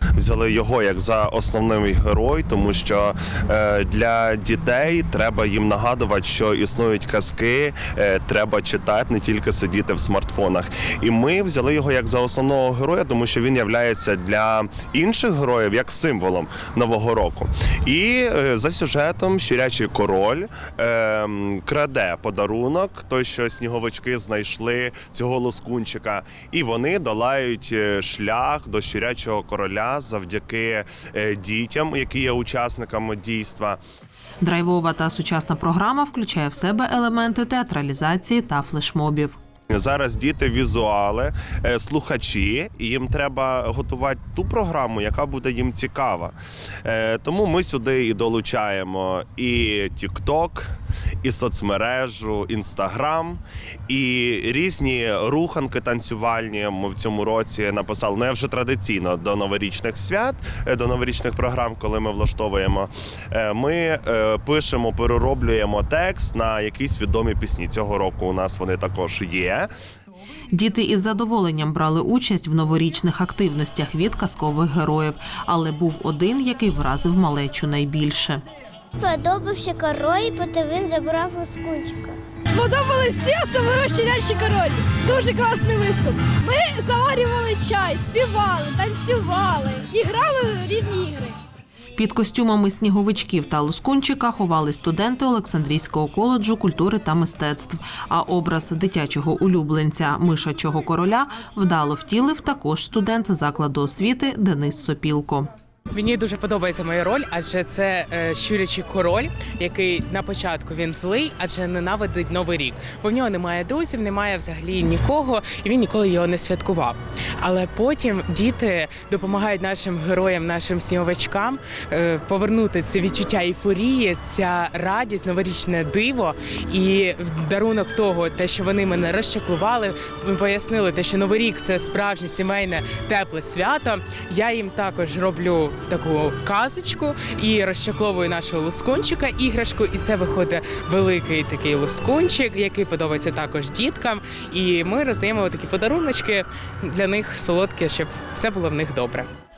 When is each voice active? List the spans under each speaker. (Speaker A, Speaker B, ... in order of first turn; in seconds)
Speaker A: 0.2-33.8, 39.7-69.7
Speaker B: 34.4-39.4, 70.5-78.4, 92.0-105.5
Speaker C: 79.0-82.2
Speaker D: 82.5-91.4
Speaker E: 105.9-149.3